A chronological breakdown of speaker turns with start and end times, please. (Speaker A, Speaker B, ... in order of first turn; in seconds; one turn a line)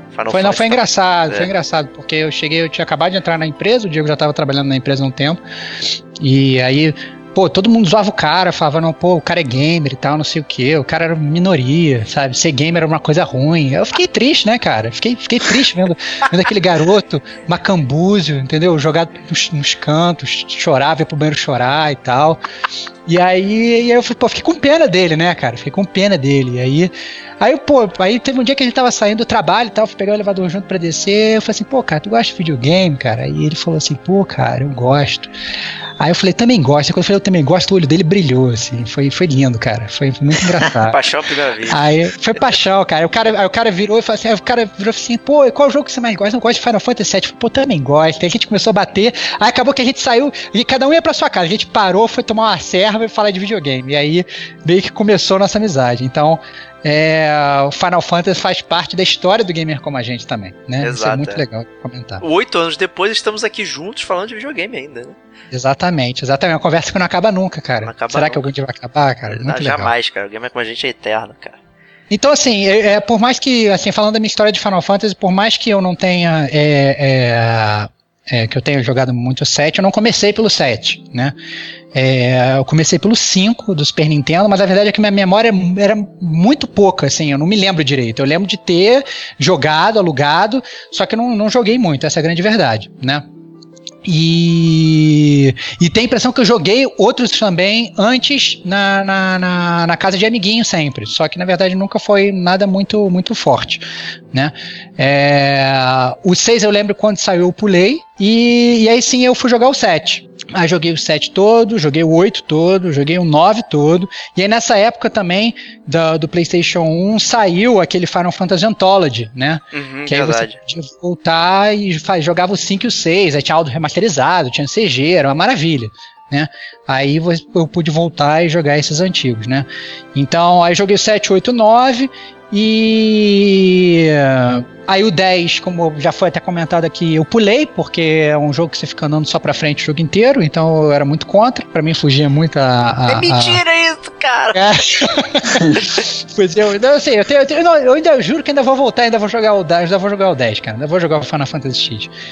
Speaker A: 0.1-1.5
Speaker B: 0.3-5.4
Speaker B: 6.2-22.4
Speaker B: 23.1-35.3
Speaker B: 36.0-41.0
Speaker A: 40.9-41.9
Speaker B: 41.7-62.2
Speaker A: 60.8-61.4
Speaker A: 62.2-65.2
Speaker B: 65.5-69.9
Speaker A: 67.8-68.5
Speaker A: 69.3-71.6
Speaker B: 72.1-81.4
Speaker B: 81.9-93.2
Speaker B: 94.0-143.6
Speaker A: 119.7-120.6
Speaker A: 143.1-144.6
Speaker B: 144.5-152.1